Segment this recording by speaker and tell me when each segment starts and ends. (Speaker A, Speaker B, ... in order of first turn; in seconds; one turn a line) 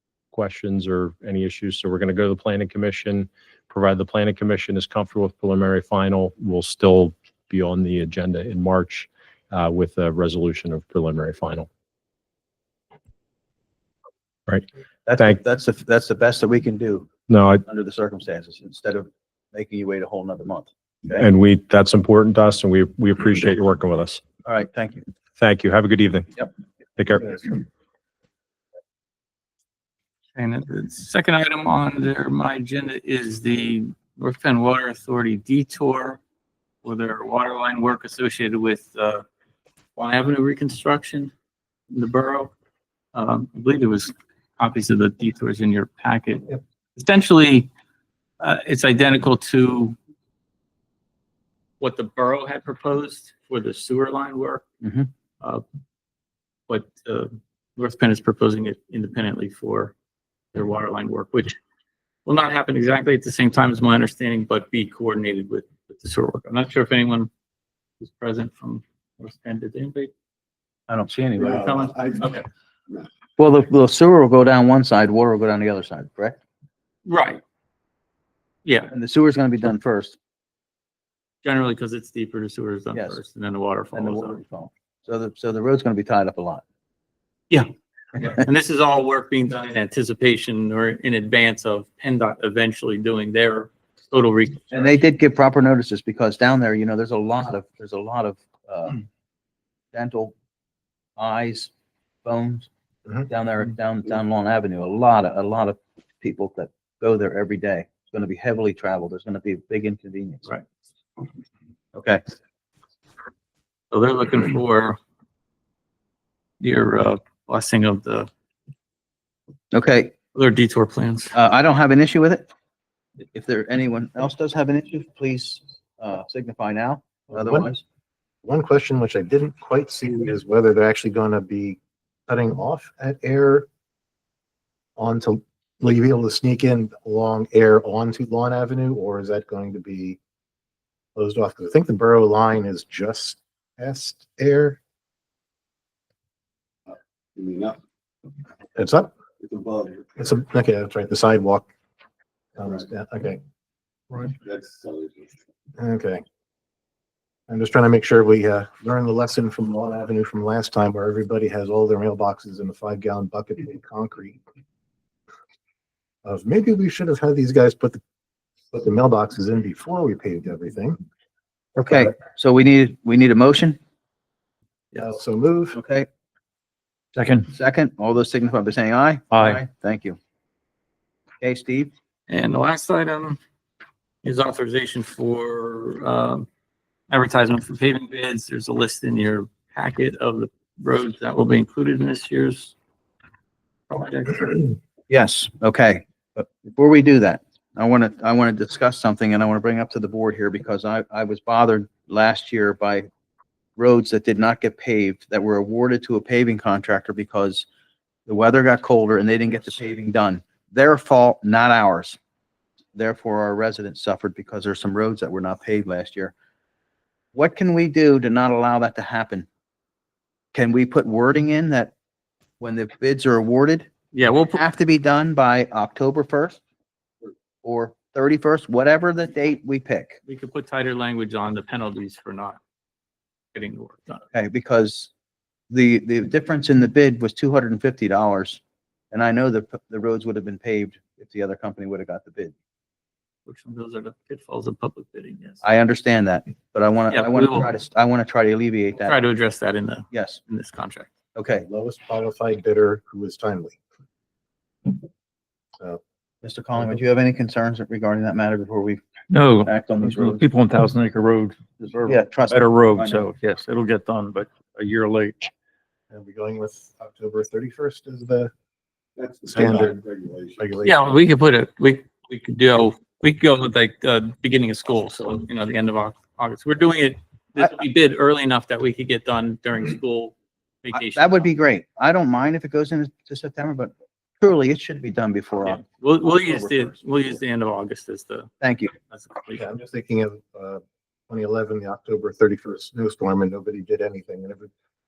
Speaker A: 0.3-11.7
Speaker B: 15.1-17.1
Speaker A: 17.3-17.6
Speaker B: 17.6-21.2
Speaker A: 21.2-24.2
Speaker B: 24.4-25.1
Speaker A: 25.4-26.5
Speaker A: 27.0-27.6
Speaker C: 30.4-36.2
Speaker C: 36.8-39.2
Speaker C: 40.0-41.3
Speaker C: 41.9-42.5
Speaker C: 43.1-47.7
Speaker C: 48.4-50.0
Speaker C: 51.8-54.6
Speaker B: 54.8-55.1
Speaker C: 56.7-59.9
Speaker C: 60.5-61.6
Speaker C: 62.3-67.3
Speaker C: 68.0-70.1
Speaker B: 70.9-71.7
Speaker D: 71.4-72.3
Speaker C: 71.4-72.5
Speaker B: 73.4-76.4
Speaker C: 77.1-77.4
Speaker C: 78.7-78.9
Speaker B: 78.9-80.2
Speaker C: 81.4-84.4
Speaker B: 83.0-83.2
Speaker B: 83.9-86.6
Speaker C: 87.5-95.0
Speaker B: 94.7-99.0
Speaker B: 99.9-100.3
Speaker B: 101.2-101.7
Speaker B: 102.2-102.7
Speaker B: 103.3-110.5
Speaker B: 112.0-112.2
Speaker C: 113.9-115.0
Speaker C: 116.6-118.3
Speaker B: 119.7-120.2
Speaker C: 120.3-121.3
Speaker B: 121.3-122.5
Speaker B: 123.3-127.8
Speaker E: 127.3-127.7
Speaker E: 128.4-133.7
Speaker E: 135.0-140.2
Speaker E: 141.2-144.8
Speaker D: 146.9-147.8
Speaker E: 148.8-149.1
Speaker D: 149.4-150.3
Speaker E: 150.2-151.7
Speaker E: 152.6-153.4
Speaker D: 154.2-155.4
Speaker E: 155.8-156.2
Speaker E: 157.5-164.4
Speaker E: 166.2-168.0
Speaker E: 168.7-171.0
Speaker B: 171.8-173.8
Speaker E: 175.0-175.8
Speaker B: 175.7-176.1
Speaker F: 177.2-177.4
Speaker B: 177.4-180.2
Speaker B: 181.4-181.9
Speaker C: 182.3-183.4
Speaker C: 184.2-186.5
Speaker C: 187.1-192.7
Speaker C: 193.9-194.7
Speaker B: 195.1-203.1
Speaker B: 203.8-207.7
Speaker B: 208.3-212.2
Speaker B: 212.9-216.3
Speaker B: 217.3-219.5
Speaker B: 220.5-221.9
Speaker B: 222.6-223.9
Speaker C: 224.1-224.6
Speaker B: 224.5-226.6
Speaker B: 227.6-230.2
Speaker C: 230.3-232.6
Speaker C: 233.5-234.2
Speaker B: 234.3-235.1
Speaker B: 235.7-238.6
Speaker B: 239.1-242.5
Speaker C: 243.5-245.6
Speaker B: 245.6-249.2
Speaker C: 247.1-247.7
Speaker C: 249.0-251.1
Speaker B: 250.1-250.4
Speaker B: 251.3-251.7
Speaker E: 251.7-253.8
Speaker B: 256.4-259.0
Speaker F: 259.3-265.5
Speaker B: 259.6-260.5
Speaker B: 261.8-263.3
Speaker E: 266.1-268.5
Speaker D: 269.2-270.8
Speaker E: 269.5-270.0
Speaker E: 270.6-271.1
Speaker C: 270.8-281.5
Speaker B: 280.9-285.8
Speaker C: 285.6-288.5
Speaker B: 286.4-286.9
Speaker B: 288.6-288.9
Speaker C: 289.1-289.7
Speaker E: 289.5-294.7